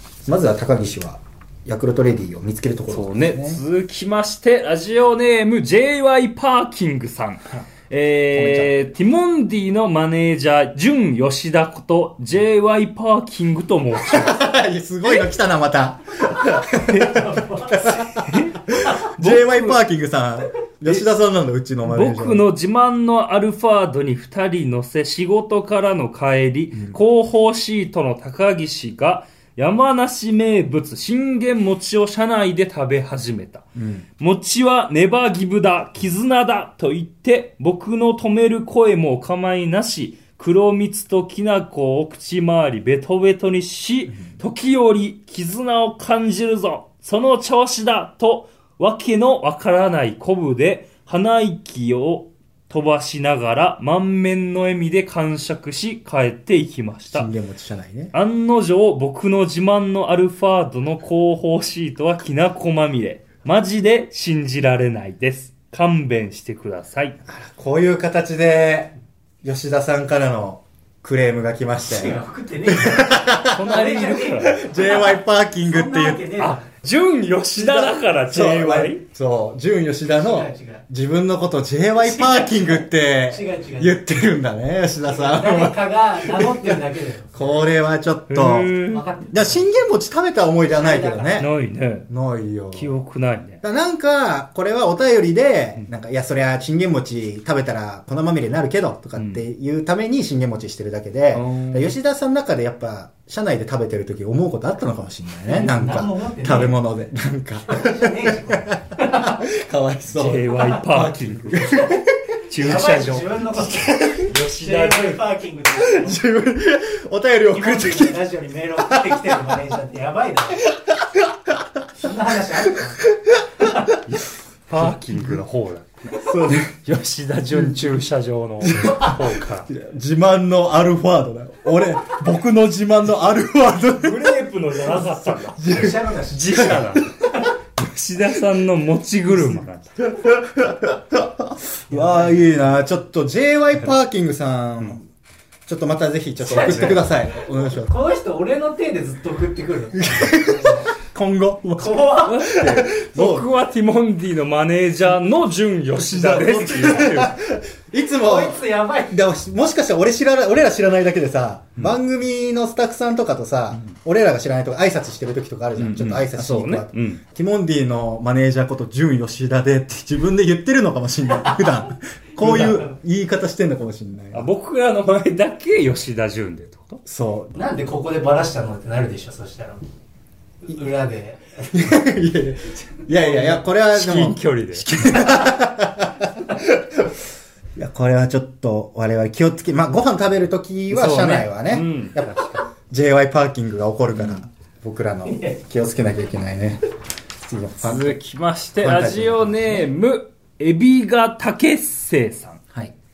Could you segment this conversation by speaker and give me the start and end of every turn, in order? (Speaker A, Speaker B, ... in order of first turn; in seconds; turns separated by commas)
Speaker A: 0.3-3.6, Speaker B: 2.9-14.4, Speaker A: 8.3-8.8, Speaker A: 14.0-22.4, Speaker B: 16.8-19.8, Speaker C: 17.1-17.8, Speaker B: 21.8-33.7, Speaker A: 33.8-34.1, Speaker B: 34.2-57.3, Speaker A: 57.1-58.1, Speaker B: 58.1-67.2, Speaker A: 67.2-76.4, Speaker C: 71.9-76.7, Speaker B: 73.4-74.7, Speaker B: 76.4-79.0, Speaker A: 77.6-91.5, Speaker C: 80.2-80.8, Speaker C: 82.0-84.0, Speaker C: 85.0-87.6, Speaker B: 88.3-89.1, Speaker C: 88.9-89.7, Speaker C: 90.7-91.4, Speaker B: 91.4-92.1, Speaker A: 92.1-92.9, Speaker B: 92.7-93.6, Speaker A: 93.6-112.1, Speaker B: 99.2-99.4, Speaker B: 101.3-101.9, Speaker C: 105.5-106.7, Speaker C: 107.7-109.5, Speaker B: 110.1-115.2, Speaker C: 112.6-116.2, Speaker A: 115.8-118.3, Speaker C: 117.5-120.7, Speaker A: 118.8-119.5, Speaker A: 120.7-121.8, Speaker C: 122.0-123.1, Speaker A: 123.3-123.6, Speaker B: 124.0-129.7, Speaker A: 126.1-126.7, Speaker A: 128.6-134.4, Speaker B: 133.9-140.0, Speaker A: 134.9-137.2, Speaker C: 135.7-136.8, Speaker A: 139.3-145.1, Speaker C: 141.9-142.4, Speaker A: 145.7-147.9, Speaker B: 146.4-147.0, Speaker C: 146.5-150.9, Speaker A: 149.9-153.5, Speaker C: 151.8-152.5, Speaker B: 152.2-157.4, Speaker A: 156.1-174.5, Speaker C: 156.7-157.1, Speaker C: 158.2-159.2, Speaker B: 165.8-167.2, Speaker B: 172.4-172.8, Speaker B: 174.3-177.0, Speaker A: 177.1-177.6, Speaker C: 177.6-179.8, Speaker C: 180.7-181.4, Speaker A: 181.6-187.1, Speaker C: 183.1-183.6, Speaker B: 183.9-185.4, Speaker A: 187.8-196.8, Speaker B: 190.9-192.7, Speaker A: 197.4-198.2, Speaker B: 197.8-202.6, Speaker A: 198.8-199.9